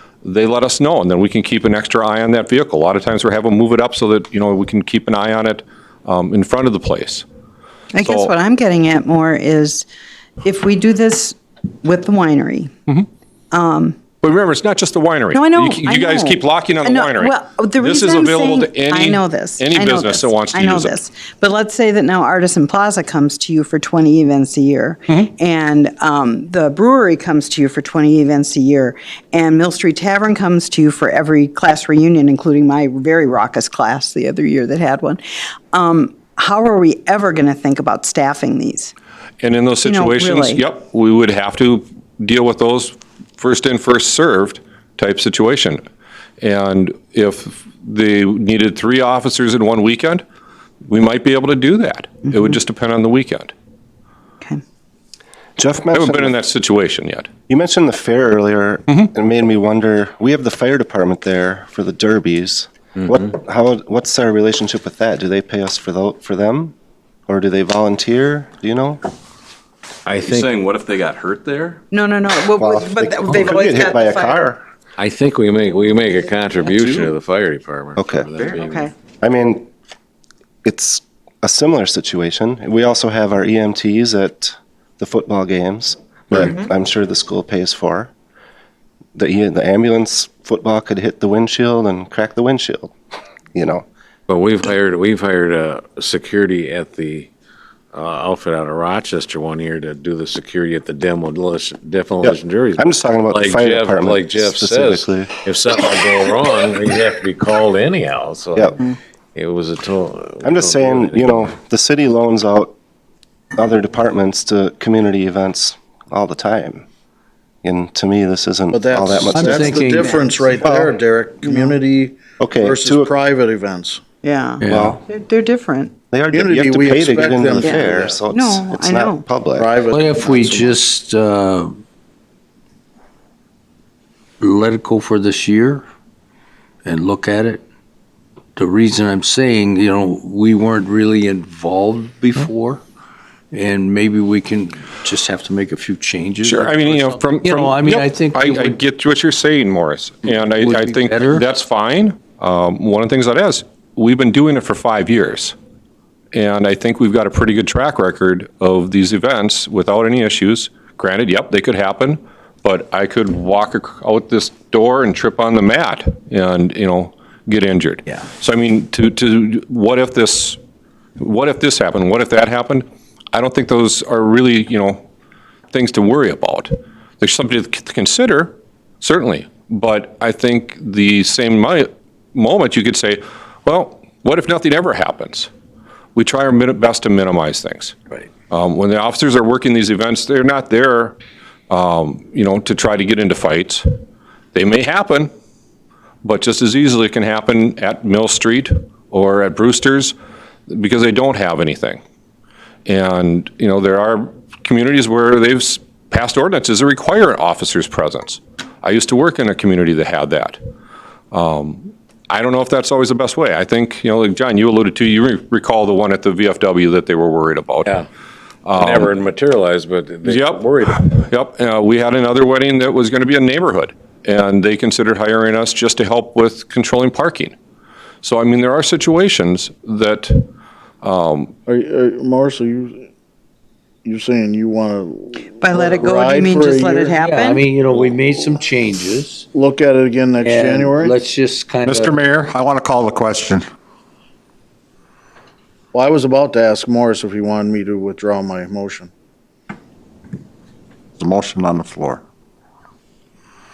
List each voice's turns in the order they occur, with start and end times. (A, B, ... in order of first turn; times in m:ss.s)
0:00.2-0:07.2 A
0:07.9-0:09.9 B
0:08.0-0:08.3 A
0:10.4-0:12.7 B
0:13.5-0:14.0 B
0:14.2-0:21.0 A
0:15.3-0:35.2 B
0:35.7-0:38.9 B
0:39.4-0:45.8 A
0:39.8-0:40.6 B
0:46.4-0:50.2 A
0:50.8-0:53.5 A
0:55.6-0:56.4 C
0:55.9-0:57.3 A
0:57.5-1:06.7 C
1:07.3-1:09.0 C
1:10.0-1:10.7 D
1:10.2-1:11.8 E
1:11.9-1:14.5 B
1:12.6-1:14.6 C
1:13.2-1:13.6 F
1:15.0-1:18.8 D
1:16.6-1:17.1 E
1:18.0-1:18.3 C
1:18.6-1:18.9 B
1:19.2-1:19.7 C
1:20.6-1:28.1 C
1:29.2-1:32.9 C
1:33.5-1:33.8 C
1:34.3-1:37.3 D
1:37.9-1:51.5 D
1:42.2-1:45.3 C
1:50.4-1:52.7 C
1:53.5-1:56.8 C
1:57.6-1:59.8 C
1:58.7-2:04.0 G
1:59.3-2:00.4 F
1:59.6-2:00.6 B
2:00.6-2:00.9 C
2:01.4-2:01.7 B
2:02.4-2:03.1 C
2:04.2-2:05.9 B
2:04.6-2:05.0 F
2:04.6-2:05.0 C
2:06.1-2:09.7 C
2:06.3-2:08.2 G
2:07.6-2:09.4 B
2:09.5-2:10.8 G
2:09.9-2:11.8 F
2:14.4-2:15.8 F
2:16.8-2:17.6 F
2:18.6-2:22.8 F
2:23.5-2:28.8 F
2:26.4-2:35.5 A
2:30.5-2:31.5 F
2:36.3-2:50.6 A
2:51.2-2:55.0 A
2:55.7-3:05.5 A
3:06.2-3:08.0 A
3:08.5-3:11.1 A
3:11.7-3:13.9 A
3:14.5-3:15.3 A
3:16.2-3:20.1 A
3:20.7-3:22.0 A
3:22.8-3:30.6 A
3:31.3-3:37.9 A
3:38.6-3:39.1 A
3:38.8-3:41.2 D
3:40.2-3:47.5 A
3:48.2-3:50.4 A
3:51.0-3:51.5 A
3:51.7-3:53.1 G
3:54.0-3:57.2 G
3:55.6-3:57.6 B
3:57.2-3:59.5 F
3:59.5-4:01.2 G
4:00.4-4:02.2 F
4:01.8-4:03.7 H
4:05.9-4:09.1 G
4:11.2-4:12.2 H